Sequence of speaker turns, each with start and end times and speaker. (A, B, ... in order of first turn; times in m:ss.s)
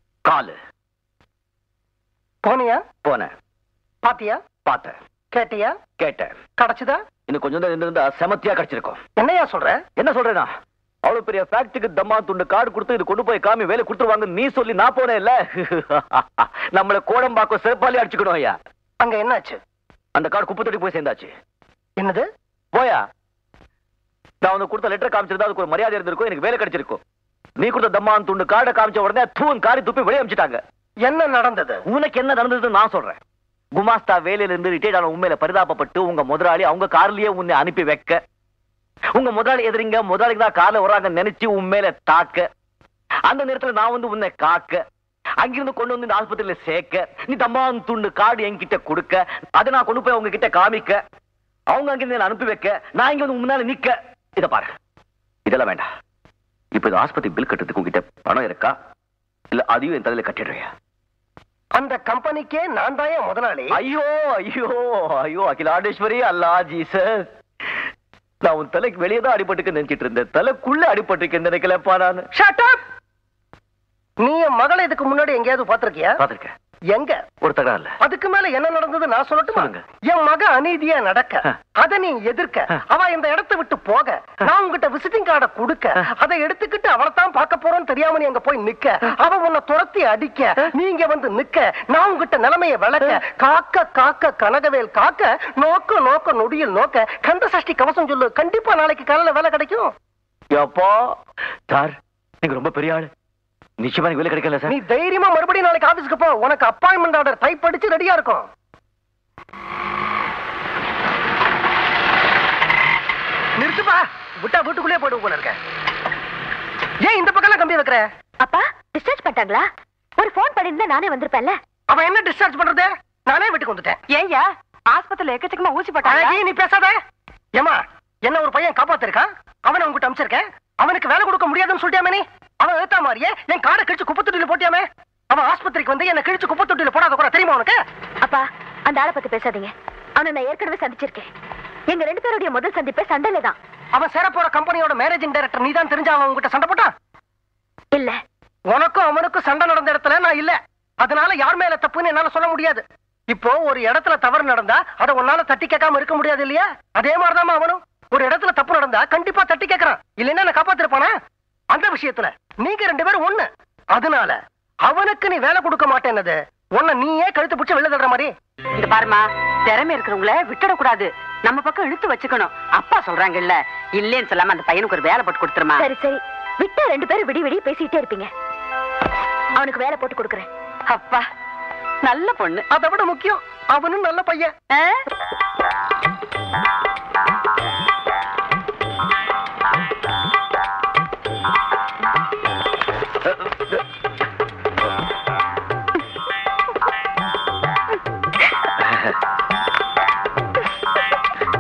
0:00.3-0:00.6 A
0:02.4-0:02.8 B
0:03.0-0:03.3 A
0:04.0-0:04.4 B
0:04.7-0:05.0 A
0:05.3-0:05.8 B
0:06.0-0:06.3 A
0:06.6-0:07.0 B
0:07.3-0:09.0 A
0:09.2-0:09.8 B
0:10.0-0:10.5 A
0:11.0-0:18.6 A
0:19.0-0:19.6 B
0:20.2-0:21.3 A
0:22.0-0:22.3 B
0:22.7-0:23.0 A
0:24.4-0:27.0 A
0:27.6-0:30.6 A
0:31.0-0:31.8 B
0:31.9-0:33.2 A
0:33.7-0:38.2 A
0:39.2-0:42.5 A
0:43.3-0:44.8 A
0:45.4-0:51.0 A
0:51.7-0:54.8 A
0:55.5-0:55.9 A
0:56.7-0:58.8 A
0:59.5-1:00.7 A
1:01.7-1:03.7 B
1:03.7-1:07.3 A
1:08.4-1:12.3 A
1:12.3-1:12.8 B
1:14.2-1:16.2 B
1:16.2-1:16.5 A
1:17.0-1:17.2 B
1:17.4-1:18.0 A
1:18.0-1:39.9 B
1:19.5-1:19.8 A
1:40.5-1:41.2 A
1:41.7-1:43.1 A
1:43.8-1:44.8 A
1:44.7-1:48.5 B
1:53.6-1:55.6 B
1:57.0-1:58.0 B
1:58.4-1:59.7 C
2:00.2-2:01.6 C
2:01.9-2:04.0 B
2:04.1-2:06.4 D
2:06.0-2:07.0 B
2:07.6-2:17.8 B
2:18.2-2:21.3 C
2:21.9-2:23.6 C
2:23.9-2:26.9 B
2:28.7-2:41.1 B
2:41.7-2:48.3 B
2:48.8-2:55.8 D
2:55.8-2:58.3 C
2:59.6-3:00.5 C
3:00.9-3:01.3 D
3:02.0-3:02.6 D
3:02.7-3:04.5 B
3:04.7-3:05.0 D
3:13.3-3:13.6 A
3:18.8-3:19.2 A